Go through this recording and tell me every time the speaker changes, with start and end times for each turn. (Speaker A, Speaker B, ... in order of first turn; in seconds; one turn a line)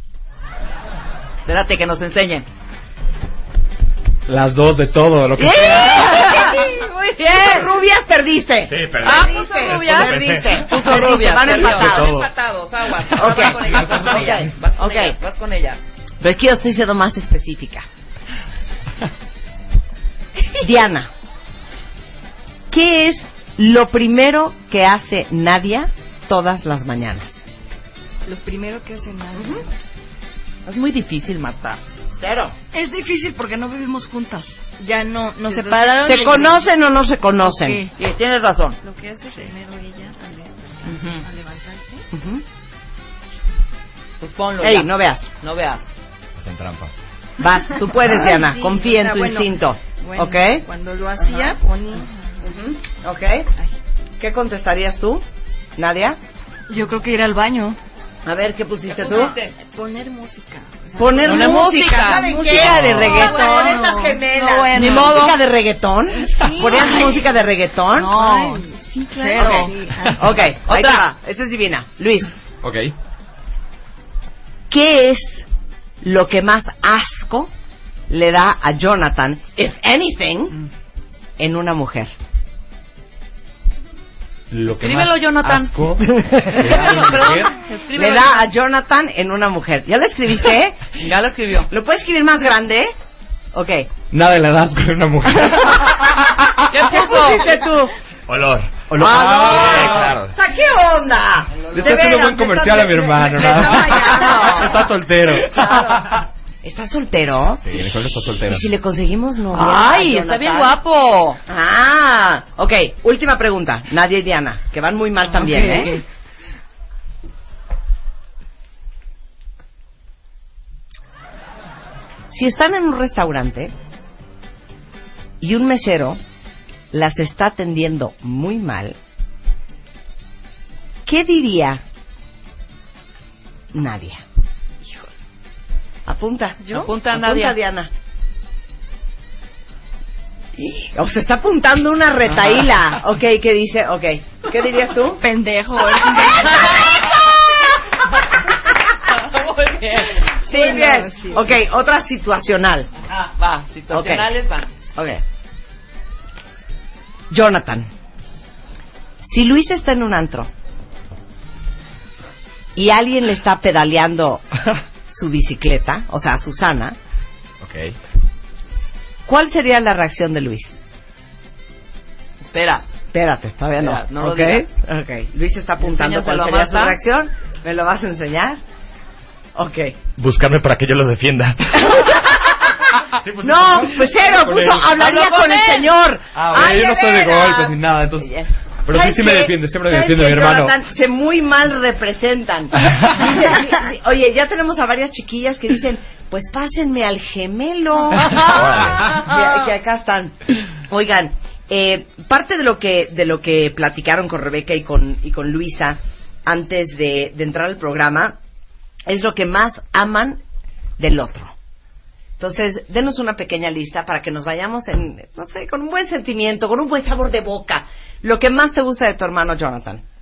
Speaker A: 1.4-2.5
Speaker B: 4.3-6.0
Speaker A: 5.4-6.5
Speaker C: 5.6-6.7
Speaker D: 6.0-7.2
Speaker A: 7.2-7.7
Speaker C: 7.2-12.3
Speaker E: 8.7-10.6
Speaker A: 9.0-15.8
Speaker E: 11.5-12.2
Speaker C: 13.1-15.2
Speaker C: 16.2-17.9
Speaker C: 20.6-21.1
Speaker C: 22.7-27.4
Speaker D: 28.2-29.7
Speaker C: 29.3-29.6
Speaker A: 30.6-31.8
Speaker C: 32.1-32.5
Speaker D: 32.7-36.7
Speaker C: 35.6-37.8
Speaker A: 35.7-36.2
Speaker D: 37.4-37.9
Speaker A: 38.0-38.8
Speaker D: 38.8-42.1
Speaker A: 40.8-41.2
Speaker C: 42.1-42.4
Speaker A: 44.2-45.8
Speaker C: 44.6-45.3
Speaker E: 46.4-46.9
Speaker C: 47.4-50.6
Speaker D: 48.0-52.4
Speaker C: 51.2-51.6
Speaker C: 52.4-53.5
Speaker C: 54.2-55.2
Speaker C: 55.8-56.2
Speaker D: 56.7-57.8
Speaker C: 58.2-59.4
Speaker A: 58.9-59.5
Speaker D: 59.6-65.3
Speaker C: 61.0-68.6
Speaker A: 61.2-62.3
Speaker A: 63.0-63.7
Speaker A: 64.3-65.4
Speaker D: 66.1-70.4
Speaker C: 69.3-72.3
Speaker A: 70.6-71.1
Speaker B: 72.6-72.9
Speaker C: 74.7-75.5
Speaker C: 76.0-77.5
Speaker C: 78.1-80.6
Speaker C: 81.4-82.1
Speaker B: 84.5-87.5
Speaker A: 84.7-88.5
Speaker C: 86.0-86.9
Speaker C: 87.9-90.8
Speaker A: 91.0-91.7
Speaker C: 91.7-92.9
Speaker C: 93.5-93.9
Speaker B: 94.1-96.2
Speaker C: 95.5-96.0
Speaker A: 96.7-97.6
Speaker C: 96.7-97.9
Speaker E: 98.3-100.3
Speaker C: 99.0-106.1
Speaker B: 99.0-99.8
Speaker B: 101.7-106.2
Speaker C: 106.6-107.6
Speaker B: 107.7-108.7
Speaker C: 108.5-110.8
Speaker A: 109.5-111.4
Speaker C: 111.5-116.0
Speaker D: 115.2-116.0
Speaker C: 122.3-123.7
Speaker C: 125.4-126.2
Speaker C: 126.9-129.0
Speaker C: 131.0-131.8
Speaker C: 133.7-134.2
Speaker C: 136.1-137.9
Speaker A: 136.6-137.6
Speaker C: 140.6-145.2
Speaker D: 145.2-146.9
Speaker C: 146.2-147.1
Speaker A: 149.1-150.3
Speaker C: 150.4-152.9
Speaker D: 150.4-151.6
Speaker A: 153.1-154.7
Speaker C: 153.9-154.3
Speaker C: 154.9-155.2
Speaker C: 157.3-157.9
Speaker C: 159.2-160.5
Speaker C: 162.8-167.0
Speaker E: 167.6-167.9
Speaker C: 169.2-170.8
Speaker A: 172.4-172.8
Speaker C: 173.1-178.6
Speaker A: 173.8-174.7
Speaker A: 175.8-177.0
Speaker C: 179.5-180.0
Speaker E: 180.2-181.9
Speaker C: 181.8-208.4
Speaker B: 183.4-184.8
Speaker A: 184.8-185.9
Speaker B: 186.3-190.8
Speaker E: 198.4-199.2
Speaker C: 209.1-210.4
Speaker C: 211.0-211.5
Speaker C: 212.4-220.0